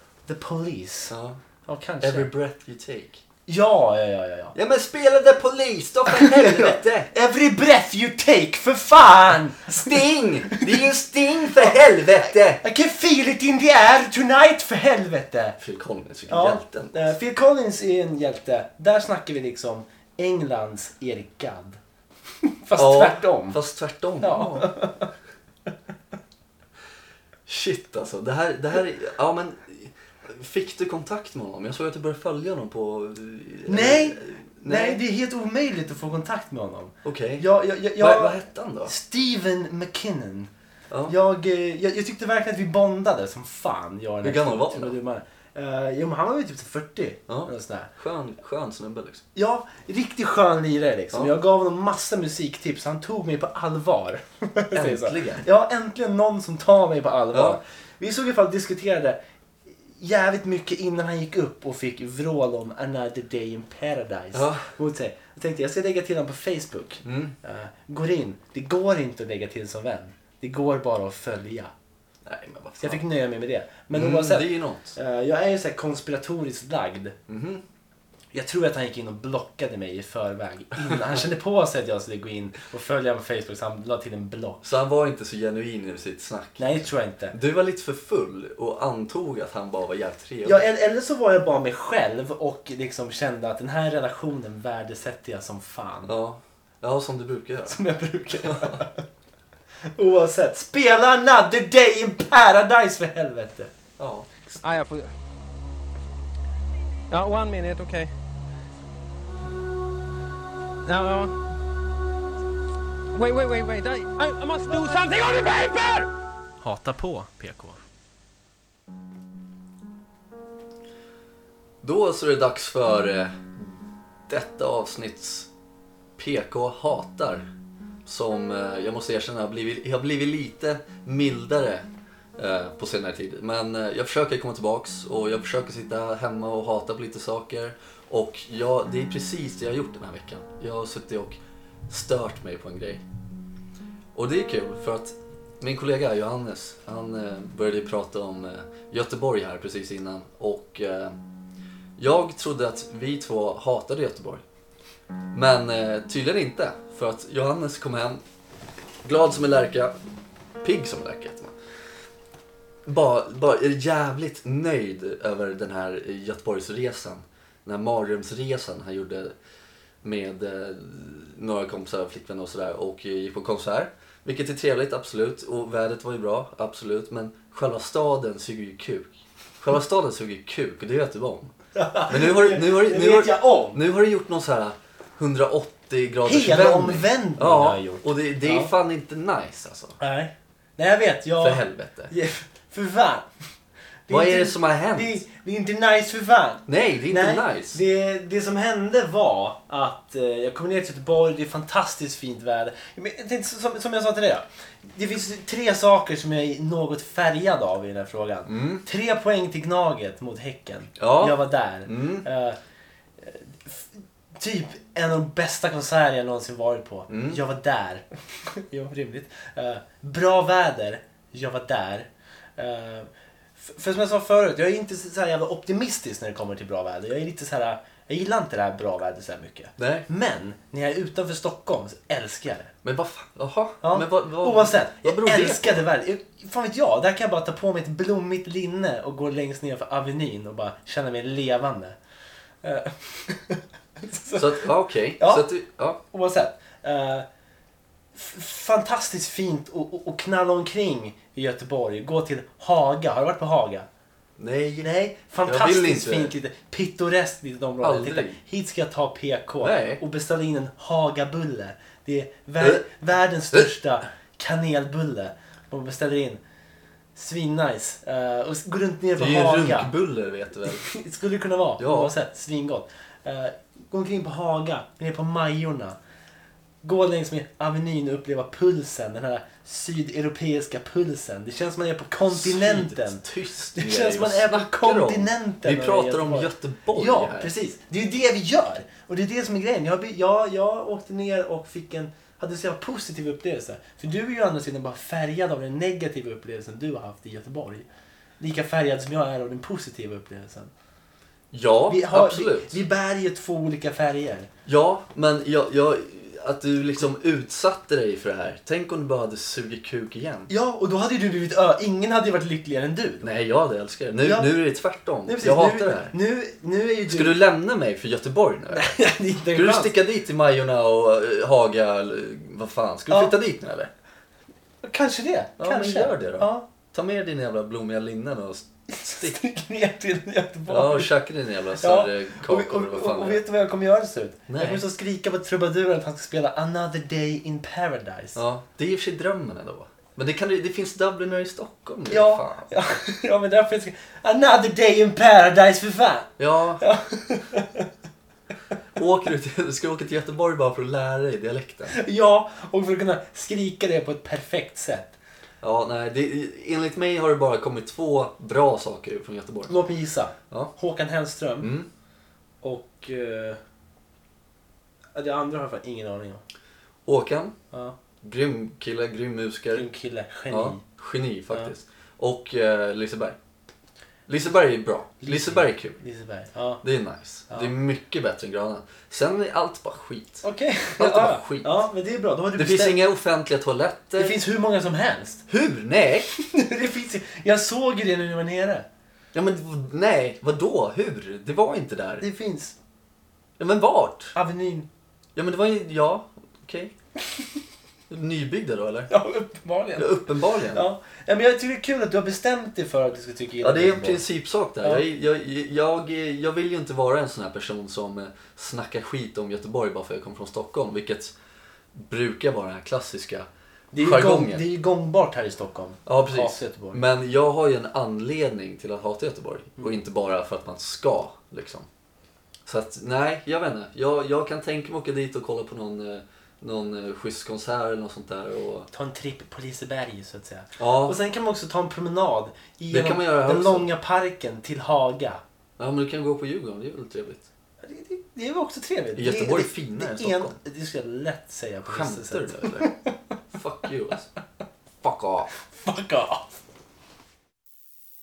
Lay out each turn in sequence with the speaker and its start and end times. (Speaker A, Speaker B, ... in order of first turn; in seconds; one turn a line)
Speaker A: 0.3-1.1
Speaker B: 1.1-1.4
Speaker A: 1.6-2.3
Speaker B: 2.0-3.2
Speaker A: 3.5-4.5
Speaker B: 4.5-7.1
Speaker A: 6.0-10.9
Speaker B: 9.8-12.6
Speaker A: 11.4-15.6
Speaker B: 15.6-17.0
Speaker A: 16.3-21.8
Speaker A: 22.4-23.6
Speaker B: 22.8-24.7
Speaker A: 24.2-25.1
Speaker B: 27.4-35.0
Speaker A: 33.7-40.5
Speaker B: 37.0-37.5
Speaker B: 38.0-38.9
Speaker A: 41.0-47.9
Speaker B: 44.2-44.9
Speaker B: 47.3-49.2
Speaker A: 49.3-59.2
Speaker B: 54.7-55.4
Speaker B: 57.3-57.6
Speaker A: 60.0-71.7
Speaker B: 64.3-64.7
Speaker B: 67.0-67.3
Speaker B: 72.2-73.0
Speaker A: 72.8-77.2
Speaker B: 73.9-74.9
Speaker B: 77.3-77.6
Speaker A: 78.3-84.6
Speaker B: 84.6-90.6
Speaker A: 86.6-87.3
Speaker A: 90.4-96.1
Speaker B: 96.0-97.8
Speaker A: 97.7-99.0
Speaker B: 98.4-98.8
Speaker A: 100.0-103.7
Speaker B: 104.0-104.3
Speaker C: 104.6-105.1
Speaker C: 107.1-108.1
Speaker C: 110.8-111.4
Speaker C: 113.1-116.1
Speaker A: 116.6-117.8
Speaker B: 121.8-123.8
Speaker B: 124.3-125.5
Speaker B: 126.2-127.5
Speaker B: 128.0-143.0
Speaker B: 144.1-151.2
Speaker B: 152.0-154.4
Speaker B: 155.3-158.2
Speaker B: 159.0-159.9
Speaker B: 160.6-161.5
Speaker B: 162.8-169.3
Speaker B: 170.0-181.5
Speaker A: 181.7-183.8
Speaker B: 182.1-190.0
Speaker A: 186.2-188.7
Speaker A: 190.0-193.3
Speaker B: 191.4-192.1
Speaker A: 194.1-212.6
Speaker B: 194.1-195.2
Speaker B: 196.7-197.8
Speaker B: 208.5-208.8
Speaker B: 211.0-212.2
Speaker A: 213.2-232.7
Speaker B: 217.1-217.4
Speaker B: 229.8-230.1
Speaker B: 232.8-235.8
Speaker A: 233.8-242.0
Speaker A: 242.6-244.7
Speaker B: 244.3-246.0
Speaker A: 245.2-245.5
Speaker A: 246.1-247.2
Speaker A: 248.1-253.9
Speaker B: 254.4-254.9
Speaker A: 254.8-266.4
Speaker B: 255.4-256.3
Speaker B: 257.8-258.4
Speaker B: 259.6-260.0
Speaker A: 267.1-269.9
Speaker B: 269.2-270.9
Speaker A: 270.7-276.0
Speaker B: 271.8-272.1
Speaker A: 276.8-283.2
Speaker B: 282.3-287.5
Speaker A: 283.7-297.9
Speaker A: 298.4-300.7
Speaker B: 301.5-302.8
Speaker A: 301.9-304.5
Speaker B: 304.6-310.5
Speaker A: 310.5-313.3
Speaker B: 313.2-316.1
Speaker A: 314.2-314.5
Speaker A: 315.2-317.4
Speaker B: 317.1-318.9
Speaker A: 318.7-319.9
Speaker B: 319.5-323.9
Speaker A: 323.1-323.3
Speaker A: 324.8-326.7
Speaker B: 325.6-329.4
Speaker A: 328.9-331.1
Speaker B: 330.7-333.4
Speaker A: 331.8-338.4
Speaker B: 334.5-334.8
Speaker B: 338.3-342.7
Speaker A: 342.1-347.9
Speaker B: 346.4-346.8
Speaker B: 348.9-351.9
Speaker A: 351.9-355.1
Speaker B: 355.6-359.8
Speaker A: 359.7-361.8
Speaker B: 361.6-361.9
Speaker A: 362.6-363.6
Speaker A: 365.1-366.4
Speaker B: 367.1-367.5
Speaker B: 368.2-369.9
Speaker A: 369.7-370.8
Speaker B: 370.5-373.4
Speaker B: 374.3-376.0
Speaker A: 375.2-376.8
Speaker B: 376.8-380.4
Speaker A: 380.4-383.0
Speaker B: 381.0-381.8
Speaker B: 382.6-384.4
Speaker A: 384.1-385.4
Speaker B: 385.5-386.3
Speaker A: 386.3-388.9
Speaker B: 389.3-392.2
Speaker A: 392.2-392.8
Speaker B: 393.6-394.4
Speaker A: 394.3-394.9
Speaker B: 395.3-396.9
Speaker B: 398.1-399.1
Speaker A: 399.1-404.2
Speaker B: 399.9-400.8
Speaker B: 403.6-411.3
Speaker B: 411.9-414.6
Speaker A: 413.9-417.0
Speaker B: 416.1-421.9
Speaker B: 422.6-428.9
Speaker A: 428.9-435.4
Speaker B: 430.8-431.2
Speaker B: 432.9-433.9
Speaker B: 435.8-437.5
Speaker A: 437.8-443.1
Speaker B: 439.1-440.6
Speaker B: 441.9-442.9
Speaker B: 443.5-444.3
Speaker B: 445.0-445.5
Speaker A: 445.7-446.5